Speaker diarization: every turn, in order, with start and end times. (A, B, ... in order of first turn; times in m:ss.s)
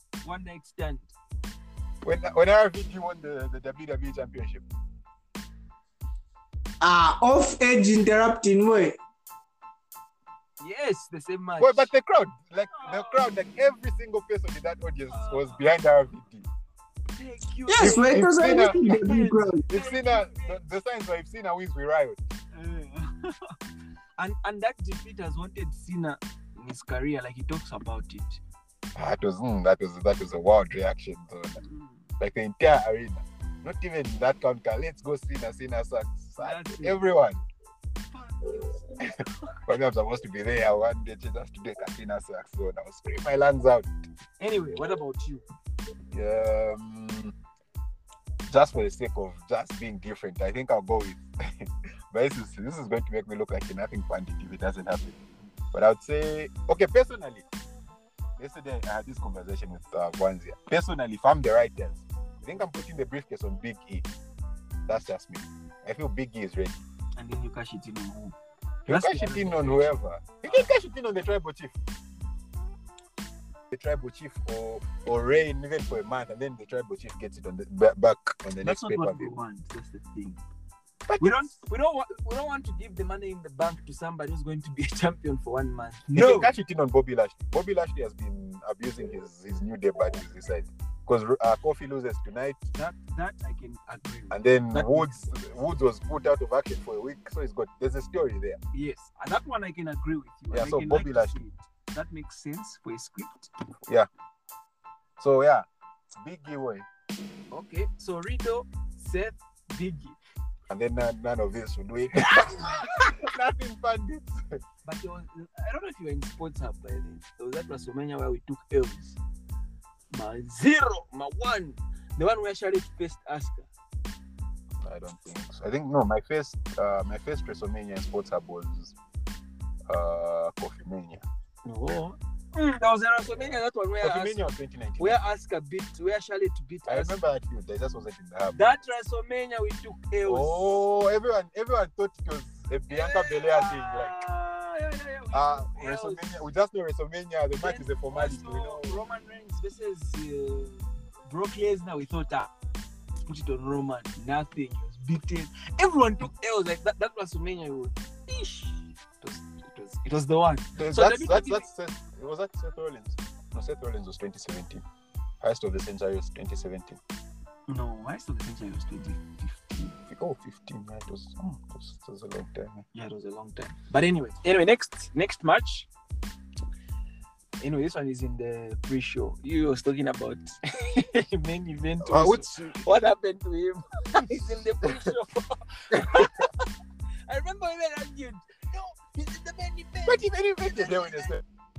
0:00.2-0:01.1 A
0:02.0-0:04.6 B
0:06.8-0:09.0 C
0:10.6-0:11.9 A
0:11.6-0:16.4 B
0:12.7-0:13.3 A
0:15.1-0:15.6 A
0:17.1-0:20.6 A
0:17.7-0:19.6 C
0:17.8-0:18.8 B
0:19.7-0:22.2 B
0:22.5-0:23.5 A
0:24.2-0:28.4 A
0:29.0-0:31.6 B
0:31.6-0:32.0 A
0:32.2-0:37.4 B
0:36.4-0:37.0 A
0:38.1-0:38.8 A
0:39.6-0:43.9 B
0:44.4-0:45.4 A
0:46.1-0:47.3 B
0:48.5-0:55.1 B
0:55.7-0:57.4 B
0:58.4-1:04.0 B
1:04.9-1:06.8 B
1:07.2-1:08.3 A
1:08.9-1:10.6 A
1:08.9-1:11.7 B
1:13.7-1:19.3 B
1:18.6-1:20.4 A
1:21.1-1:21.4 B
1:21.2-1:26.5 A
1:26.1-1:32.6 B
1:32.7-1:35.3 A
1:34.3-1:38.6 B
1:38.7-1:43.5 A
1:40.5-1:41.4 B
1:45.2-1:45.6 B
1:46.2-1:46.8 B
1:47.5-1:50.2 A
1:50.7-1:54.4 B
1:52.2-1:53.1 A
1:54.8-1:59.2 A
2:00.1-2:03.7 A
2:04.8-2:08.9 B
2:09.9-2:11.2 B
2:11.6-2:14.4 A
2:13.3-2:15.2 B
2:15.0-2:17.2 A
2:16.9-2:18.6 B
2:18.5-2:20.6 A
2:20.2-2:24.1 B
2:22.9-2:26.4 A
2:25.3-2:29.0 B
2:27.6-2:32.5 A
2:33.2-2:41.6 A
2:40.8-2:44.8 B
2:45.4-2:47.0 B
2:47.7-2:50.0 A
2:50.1-2:52.8 B
2:52.9-2:55.9 A
2:57.6-3:06.6 A
3:02.0-3:02.7 B
3:07.3-3:11.3 A
3:10.0-3:11.4 B